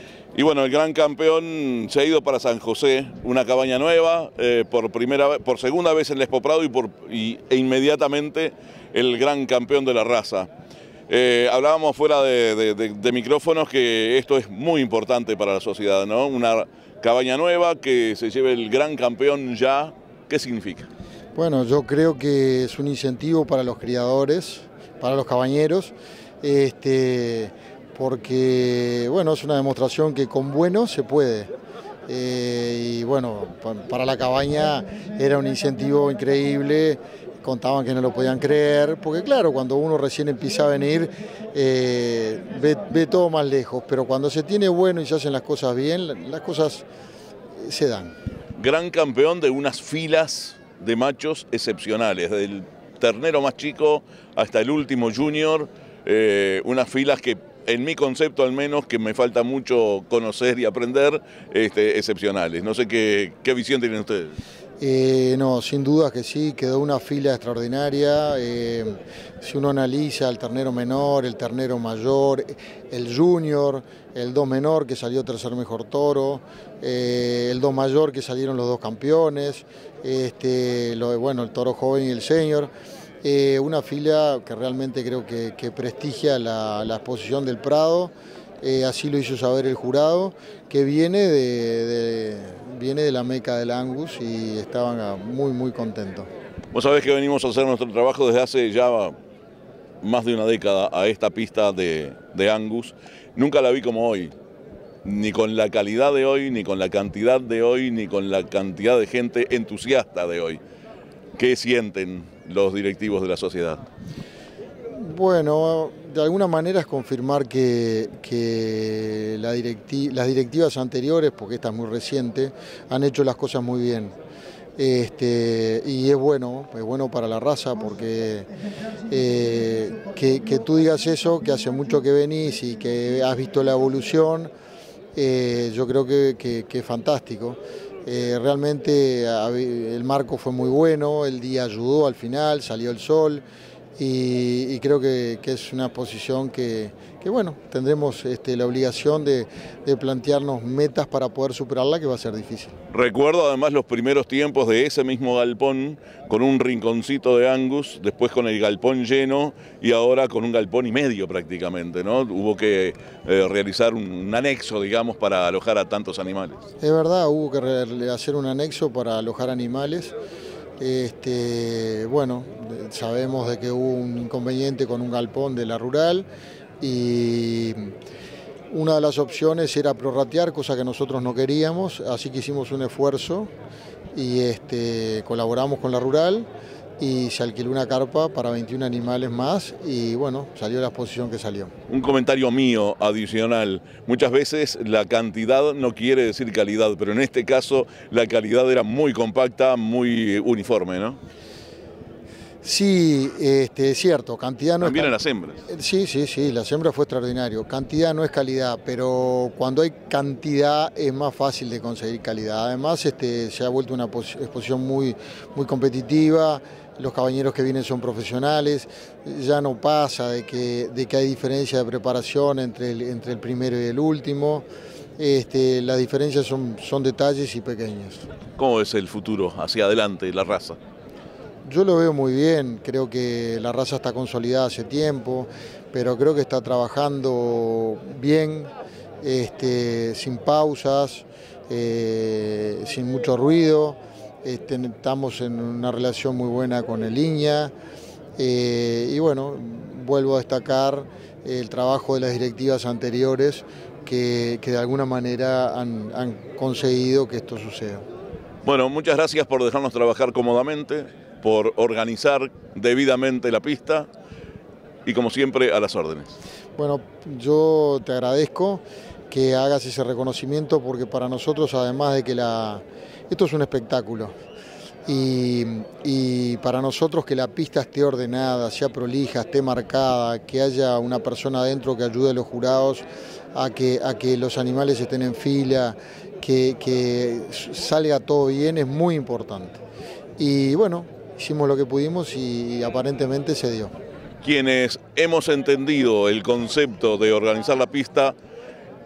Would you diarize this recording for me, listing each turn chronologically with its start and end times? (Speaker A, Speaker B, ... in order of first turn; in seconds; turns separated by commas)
Speaker A: 0.3-10.5, Speaker A: 11.1-20.9, Speaker B: 21.4-31.5, Speaker B: 32.1-46.9, Speaker B: 47.6-48.1, Speaker A: 48.6-64.4, Speaker B: 64.8-82.7, Speaker B: 83.2-96.3, Speaker A: 96.7-99.2, Speaker A: 100.0-104.3, Speaker A: 105.0-110.6, Speaker A: 111.4-113.8, Speaker B: 114.9-124.2, Speaker B: 124.8-128.5, Speaker B: 129.1-134.5, Speaker B: 135.2-143.4, Speaker B: 144.0-152.8, Speaker A: 152.9-166.6, Speaker B: 166.8-170.1, Speaker B: 170.8-176.3, Speaker B: 176.8-177.9, Speaker B: 178.7-183.5, Speaker B: 184.1-186.5, Speaker B: 187.0-191.7, Speaker A: 191.9-201.2, Speaker B: 202.6-205.1, Speaker A: 204.8-205.6, Speaker B: 205.7-224.7, Speaker B: 225.2-228.2, Speaker A: 228.6-230.8, Speaker B: 231.7-238.7, Speaker B: 239.2-247.7, Speaker B: 248.4-258.1, Speaker A: 258.6-264.1, Speaker A: 265.1-266.4, Speaker B: 266.8-274.3, Speaker B: 275.1-289.8, Speaker B: 290.4-293.9, Speaker A: 294.4-298.4